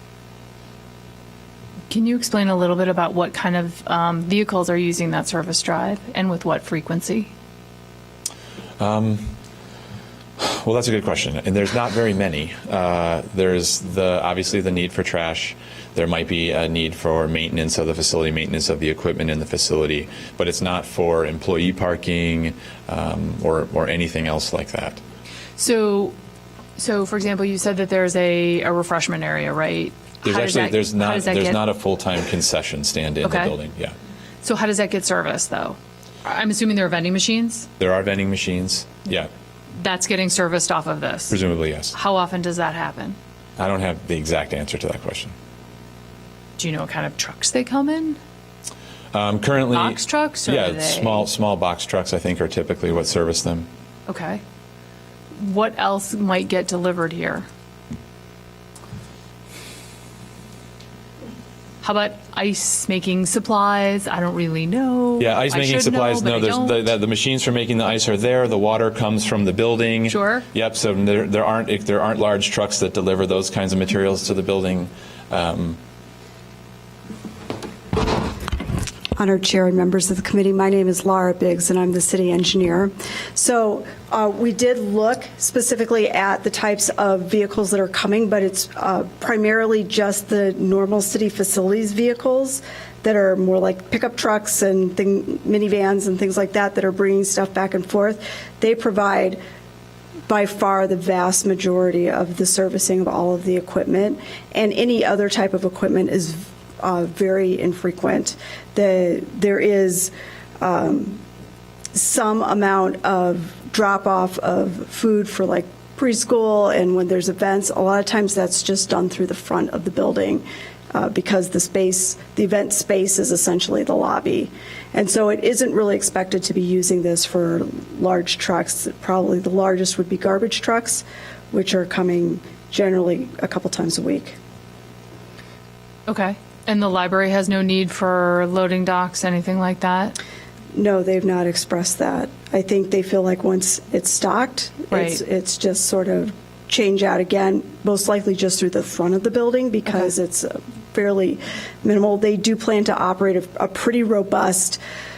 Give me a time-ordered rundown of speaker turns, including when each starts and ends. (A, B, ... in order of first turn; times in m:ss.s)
0:01.9-0:07.3 A
0:08.8-0:09.4 B
0:10.4-0:25.0 B
0:25.6-0:26.2 A
0:26.8-0:31.6 A
0:30.2-0:34.0 B
0:33.2-0:33.6 A
0:34.4-0:37.7 A
0:37.8-0:39.3 B
0:39.8-0:41.4 A
0:41.3-0:42.0 B
0:41.9-0:43.2 A
0:43.6-0:45.3 B
0:46.6-0:48.2 A
0:49.1-0:53.7 B
0:49.7-0:51.3 A
0:54.1-0:54.4 A
0:55.4-0:57.5 A
1:01.8-1:06.9 A
1:05.2-1:15.8 B
1:10.1-1:10.5 A
1:19.2-1:39.4 C
1:40.3-1:51.2 C
1:51.9-2:14.4 C
2:16.1-2:20.2 A
2:20.7-2:34.8 C
2:24.9-2:25.2 A